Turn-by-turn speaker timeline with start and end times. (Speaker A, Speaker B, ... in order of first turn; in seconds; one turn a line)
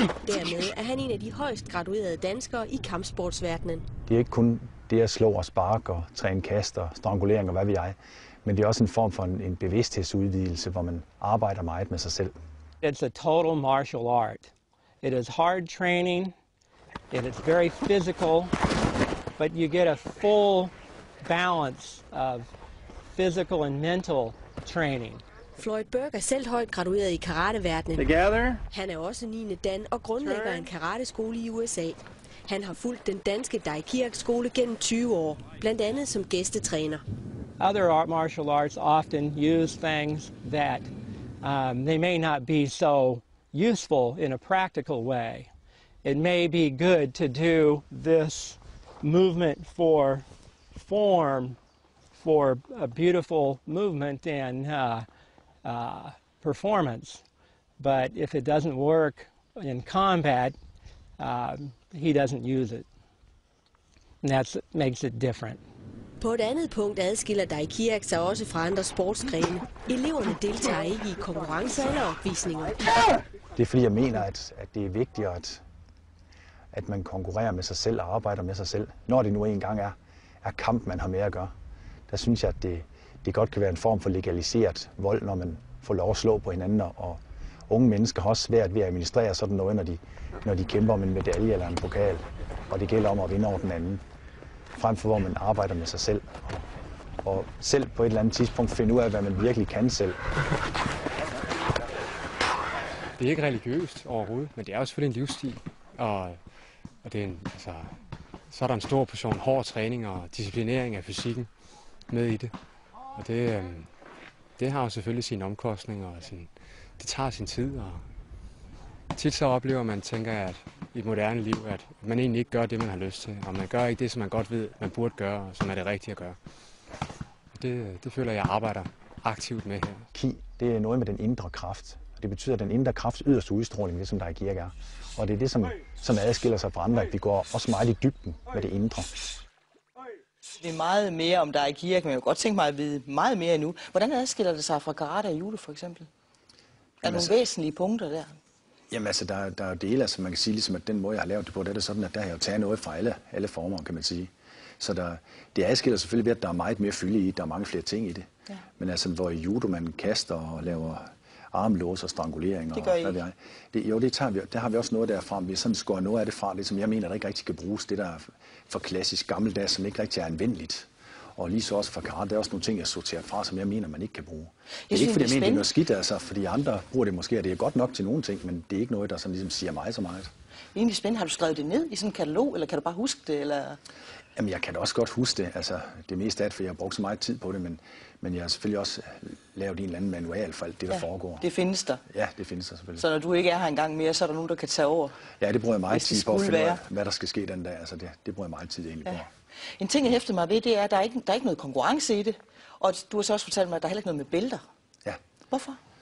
Speaker A: 0.2-3.9
Speaker B: 4.1-12.3
Speaker C: 12.8-14.5
Speaker C: 15.0-16.3
Speaker C: 17.1-18.5
Speaker C: 19.4-22.5
Speaker C: 23.1-25.2
Speaker A: 25.6-28.1
Speaker C: 28.0-28.6
Speaker A: 28.7-37.0
Speaker C: 30.2-30.7
Speaker C: 37.6-40.9
Speaker C: 41.4-45.5
Speaker C: 46.0-51.6
Speaker C: 52.2-55.1
Speaker C: 55.6-57.2
Speaker C: 57.8-60.5
Speaker C: 61.2-62.8
Speaker C: 64.2-65.6
Speaker A: 66.2-72.8
Speaker B: 73.5-75.6
Speaker B: 76.7-81.5
Speaker B: 82.1-94.0
Speaker B: 94.8-96.6
Speaker B: 97.2-100.2
Speaker D: 103.2-106.4
Speaker D: 107.0-108.0
Speaker D: 108.5-111.5
Speaker D: 112.1-112.5
Speaker D: 113.1-113.9
Speaker D: 114.6-118.0
Speaker D: 119.1-126.4
Speaker D: 127.5-130.1
Speaker B: 130.1-139.1
Speaker E: 140.5-146.1
Speaker E: 147.0-148.3
Speaker B: 147.0-147.3
Speaker B: 148.9-158.3
Speaker B: 158.8-180.3
Speaker E: 162.7-163.2
Speaker E: 174.9-175.7
Speaker E: 180.7-183.8
Speaker B: 184.3-191.4
Speaker E: 191.0-192.0
Speaker B: 192.1-193.0
Speaker E: 193.0-195.2
Speaker B: 195.4-199.3
Speaker E: 195.9-196.8
Speaker E: 199.8-204.6
Speaker E: 205.5-205.8